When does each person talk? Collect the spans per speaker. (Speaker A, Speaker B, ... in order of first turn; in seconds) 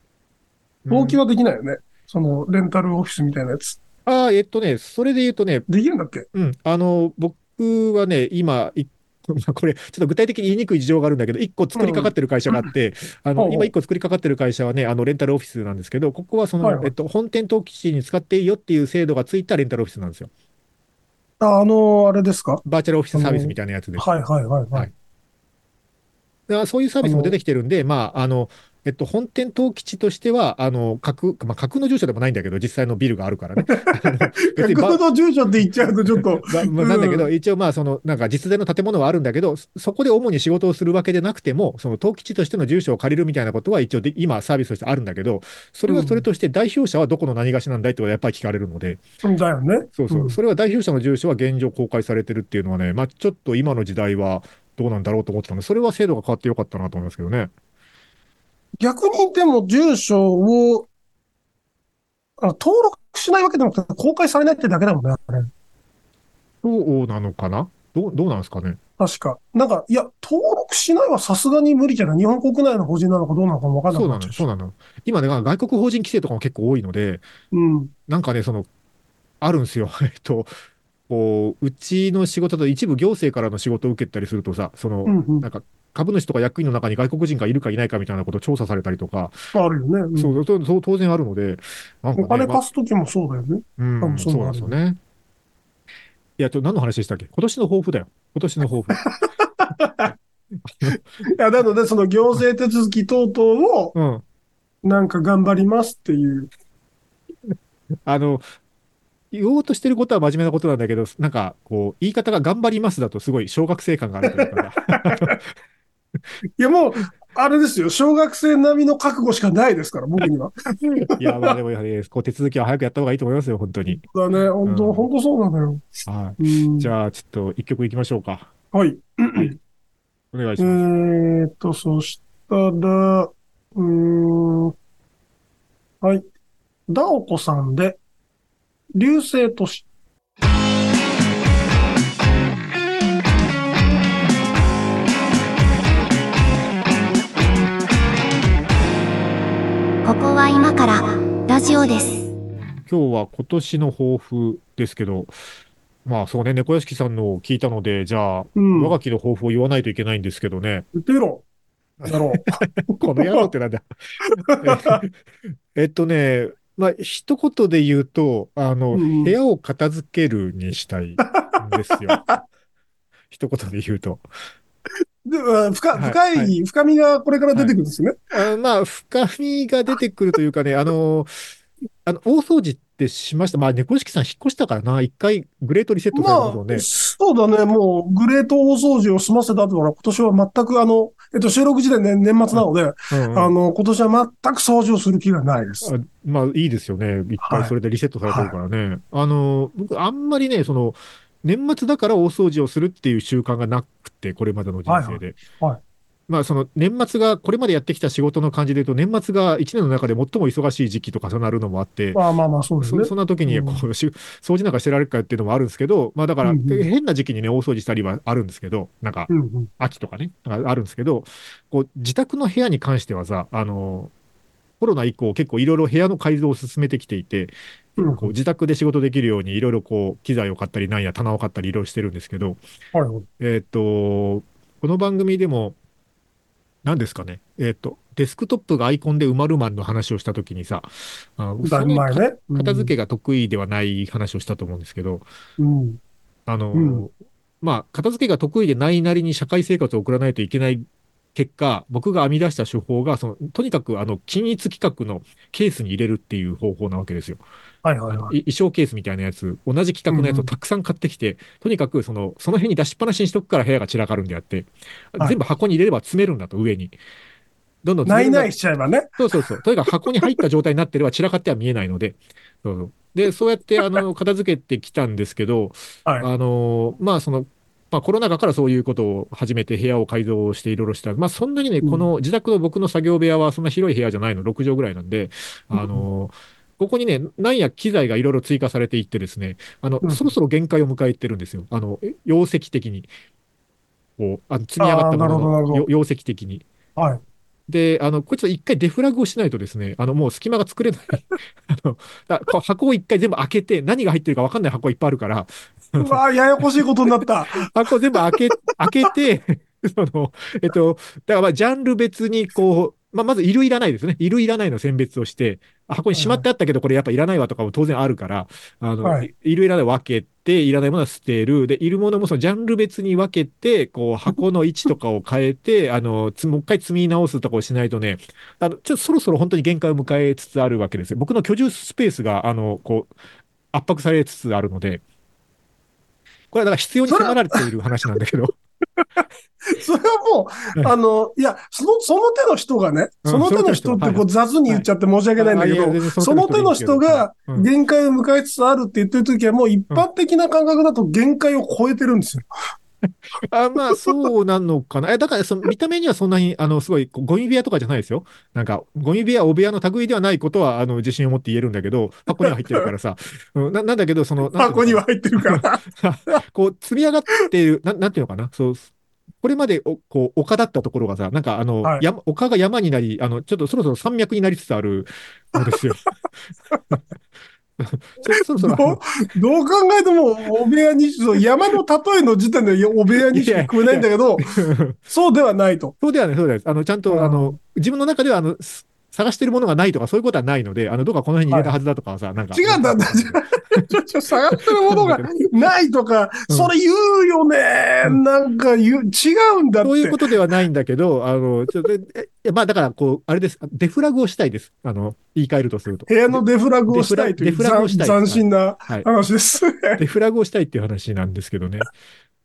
Speaker A: 0.8-1.2, 4.1-5.7, 6.3-20.3, 22.6-24.1, 26.5-35.0, 36.1-49.0, 50.0-57.5, 66.6-68.8, 73.9-77.2, 78.1-78.7, 79.4-80.5, 81.1-89.4, 90.2-92.6, 93.8-95.0, 96.4-99.1, 104.0-104.2, 108.1-108.5, 109.3-115.4, 121.1-124.0, 124.6-125.1, 126.1-128.5, 130.3-130.8, 152.9-155.3, 156.0-160.9, 162.0-163.9, 164.6-165.1, 165.7-172.4, 173.3-174.2, 175.9-176.5, 178.3-181.3, 182.0-186.9, 192.5-193.5, 195.8-205.4, 206.3-212.2, 212.8-224.1, 224.8-227.5, 228.1-232.6, 233.4-235.8, 236.8-245.2, 246.5-257.4, 258.1-266.9, 267.8-268.5, 269.2-293.1, 294.2-296.6, 297.7-306.2, 307.5-333.1, 333.7-335.0, 336.5-338.6, 343.2-344.9, 345.4-347.7, 353.4-368.9, 369.4-376.0, 377.8-379.0, 383.3-385.0, 386.0-393.9, 394.9-395.3, 399.8-409.1, 410.0-411.9
Speaker B: 0.9-3.8, 5.7-6.2, 11.8-12.7, 13.4-13.7, 16.6-16.9, 21.4-22.6, 23.1-24.9, 27.0-27.4, 33.6-37.3, 45.9-46.2, 49.2-50.4, 58.8-60.9, 62.4-65.5, 69.0-74.5, 77.5-77.9, 85.1-85.5, 89.5-90.3, 92.2-94.8, 99.0-100.1, 100.9-104.0, 104.8-106.5, 114.2-115.3, 116.6-121.5, 123.9-125.9, 126.4-126.9, 128.7-129.6, 130.6-134.8, 136.9-138.0, 138.9-139.8, 158.6-159.0, 160.9-161.4, 162.0-162.6, 163.2-163.5, 164.5-165.0, 168.9-169.3, 171.2-172.4, 175.2-178.2, 186.1-195.9, 197.4-197.7, 198.3-198.5, 204.9-205.8, 212.1-213.9, 216.4-216.9, 219.3-219.7, 228.0-228.3, 232.9-233.3, 241.6-242.9, 245.6-246.0, 246.7-247.1, 257.8-258.4, 260.1-260.5, 268.1-269.1, 285.7-286.1, 290.0-290.3, 294.8-295.9, 297.0-297.2, 306.0-308.2, 316.1-316.4, 319.0-319.3, 337.1-337.6, 339.7-352.4, 362.4-362.9, 364.5-366.4, 378.4-384.5, 385.1-385.9, 387.1-387.6, 391.5-391.8, 392.5-400.2, 406.1-410.0
Speaker C: 150.0-152.3